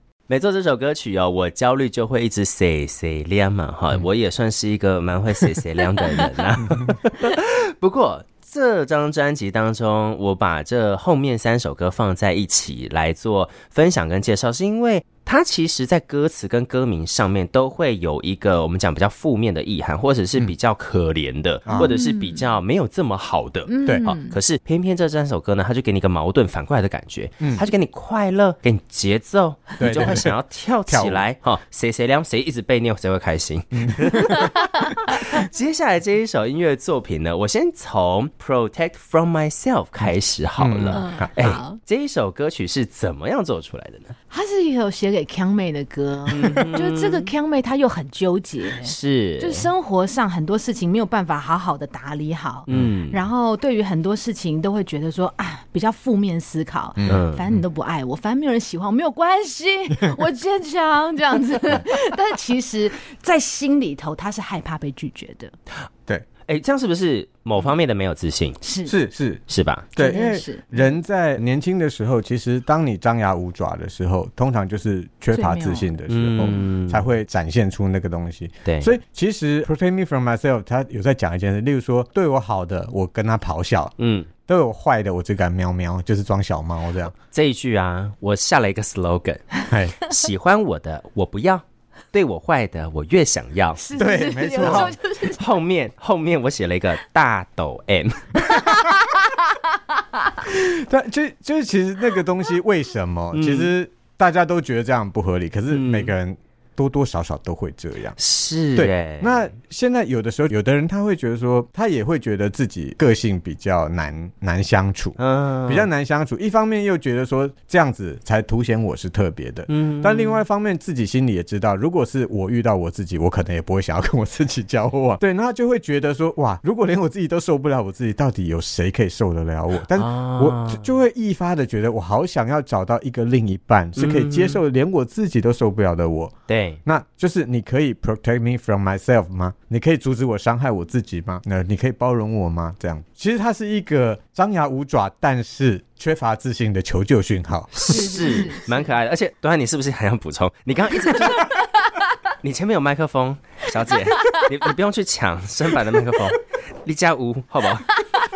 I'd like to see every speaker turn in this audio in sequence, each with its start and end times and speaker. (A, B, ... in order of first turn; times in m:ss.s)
0:00.3-0:44.1 A
0:06.6-0:07.0 B
0:21.6-0:21.9 B
0:21.7-0:22.5 C
0:23.7-0:24.4 C
0:23.9-0:24.1 B
0:29.8-0:30.4 B
0:30.9-0:31.2 B
0:33.7-0:34.2 B
0:34.3-0:34.8 C
0:40.6-0:41.3 B
0:40.9-0:41.8 C
0:44.3-1:05.5 C
0:46.3-0:47.3 A
0:48.8-0:49.7 A
0:52.7-0:53.2 A
0:57.0-0:57.6 B
0:57.0-0:57.4 A
1:06.5-1:08.6 A
1:08.6-1:09.0 C
1:08.9-1:09.4 B
1:09.5-1:09.9 A
1:09.9-1:23.9 B
1:10.0-1:10.8 C
1:15.3-1:15.9 C
1:16.1-1:17.0 A
1:18.6-1:18.9 A
1:24.0-1:24.3 A
1:24.5-1:27.1 B
1:27.3-1:33.8 A
1:29.7-1:29.9 B
1:33.8-1:35.4 C
1:33.9-1:35.0 B
1:34.6-1:38.6 A
1:38.5-1:39.2 C
1:40.4-1:48.2 B
1:43.3-1:43.7 A
1:45.7-1:46.1 A
1:48.2-1:49.4 A
1:48.7-2:16.3 B
1:55.2-1:55.9 A
1:59.7-2:00.4 A
2:09.9-2:10.8 A
2:14.0-2:14.6 A
2:16.5-2:16.8 A
2:16.8-2:28.1 B
2:27.7-2:31.5 A
2:27.9-2:28.8 C
2:32.4-2:38.0 A